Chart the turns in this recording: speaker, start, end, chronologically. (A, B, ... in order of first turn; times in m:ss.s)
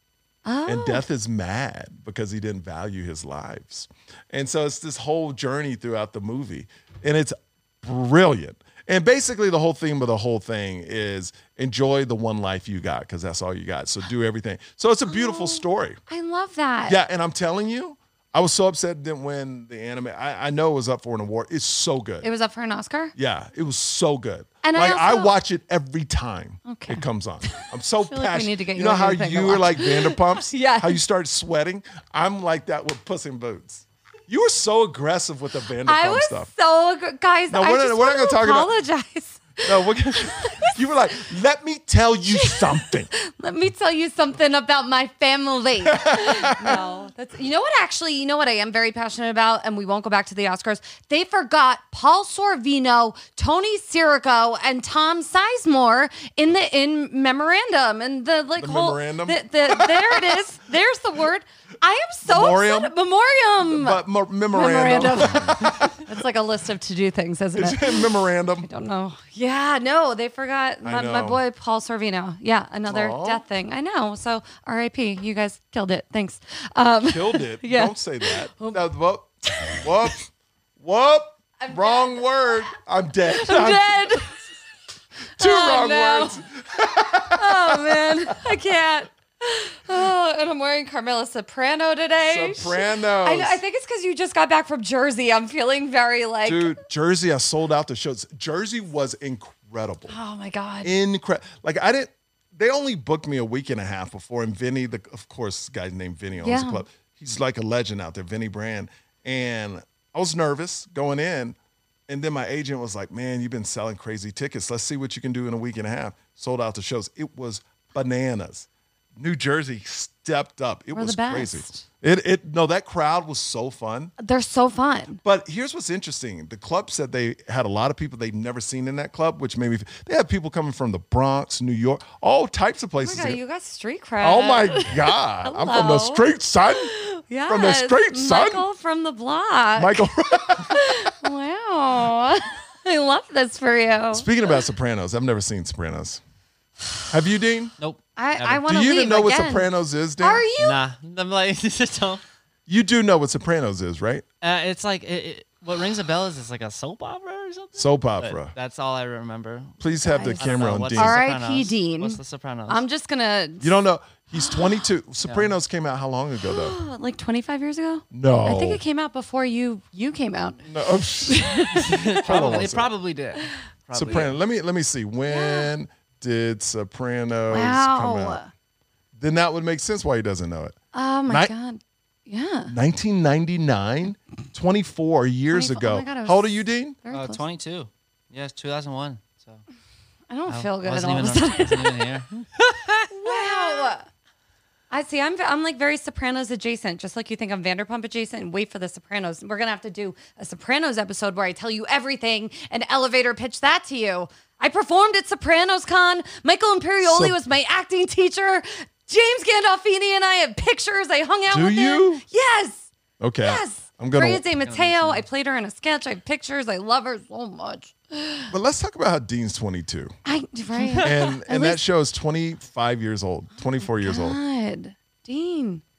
0:00.4-0:01.0 A
0:00.6-0:16.0 B
0:15.1-0:17.0 A
0:16.9-0:22.2 B
0:22.2-0:23.1 A
0:23.1-0:36.5 B
0:24.6-0:25.3 A
0:26.6-0:31.0 A
0:35.8-0:40.8 A
0:37.5-0:38.7 B
0:39.6-0:43.1 B
0:42.3-1:08.1 A
0:45.8-0:46.8 B
0:58.6-1:00.4 B
1:02.2-1:02.9 B
1:03.6-1:06.0 B
1:07.6-1:08.7 B
1:08.6-1:18.8 A
1:10.8-1:11.4 B
1:12.9-1:13.4 B
1:17.1-1:20.2 B
1:19.4-1:20.1 A
1:20.8-1:24.3 B
1:21.6-1:22.3 A
1:23.3-1:24.3 A
1:25.4-1:26.4 A
1:25.4-1:28.4 B
1:27.3-1:36.8 A
1:32.2-1:33.6 B
1:36.4-1:40.1 B
1:40.1-1:40.9 A
1:40.8-1:51.6 B
1:46.4-1:46.8 A
1:52.1-2:04.1 B
2:00.9-2:01.8 A
2:04.2-2:05.2 A
2:05.2-2:13.4 B
2:13.0-2:24.3 A
2:14.2-2:16.9 B
2:17.5-2:18.6 B
2:19.8-2:21.1 B
2:24.1-2:26.2 B
2:27.1-2:27.7 B
2:27.8-2:28.6 C
2:28.2-2:30.8 A
2:28.6-2:30.4 B
2:30.6-2:32.2 C
2:32.7-2:34.2 B
2:34.4-2:42.8 C
2:37.8-2:38.5 B
2:39.8-2:41.2 B
2:40.0-2:43.7 A
2:43.6-2:46.8 B
2:44.4-2:44.6 A
2:45.2-2:45.5 C
2:46.4-2:52.6 A
2:48.1-2:48.8 B
2:50.6-2:52.9 B
2:51.8-2:54.3 C
2:53.9-2:58.4 B
2:55.3-2:55.7 A
2:57.5-2:58.5 A
2:59.2-3:00.7 B
3:00.9-3:02.7 A
3:02.7-3:07.0 B
3:05.5-3:06.5 A
3:07.0-3:07.4 A
3:07.1-3:09.6 C
3:10.3-3:12.1 A
3:10.5-3:13.9 C
3:13.1-3:14.0 A
3:14.9-3:32.9 A
3:27.0-3:27.4 B
3:31.5-3:32.2 B
3:33.2-3:34.4 B
3:33.4-3:38.5 A
3:34.6-3:35.2 C
3:38.5-3:40.1 B
3:40.2-3:41.8 A
3:40.7-3:41.2 C
3:41.0-3:44.4 B
3:44.0-3:45.8 A